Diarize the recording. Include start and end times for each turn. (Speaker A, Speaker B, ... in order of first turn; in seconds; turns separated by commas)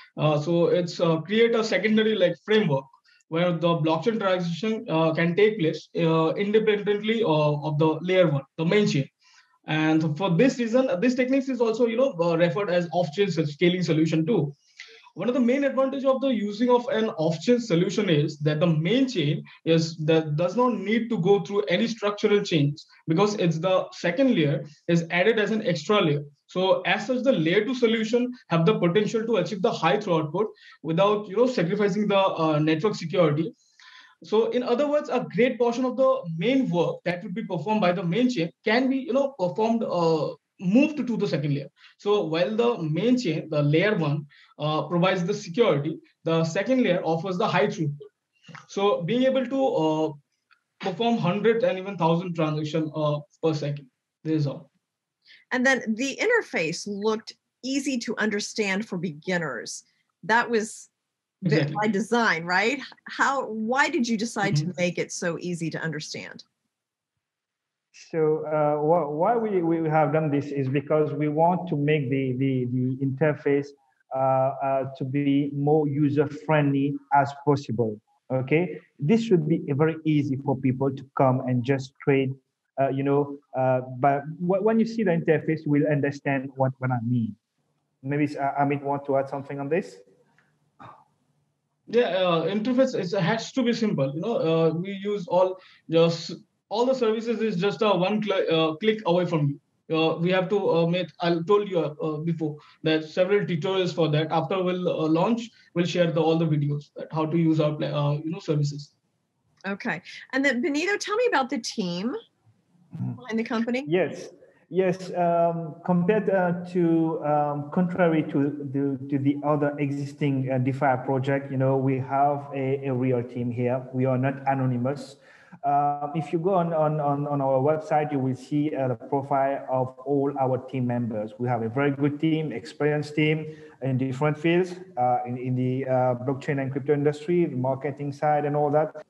Speaker A: 0.2-9.1, Speaker A: 9.7-14.6, Speaker A: 15.2-33.5, Speaker A: 34.2-48.1, Speaker A: 48.7-50.1, Speaker A: 50.8-54.7, Speaker B: 55.5-60.9, Speaker A: 61.4-61.8, Speaker B: 61.5-66.4, Speaker C: 67.9-87.4, Speaker C: 88.0-90.0, Speaker A: 91.9-108.9, Speaker B: 109.7-112.2, Speaker B: 113.2-113.9, Speaker C: 113.9-139.0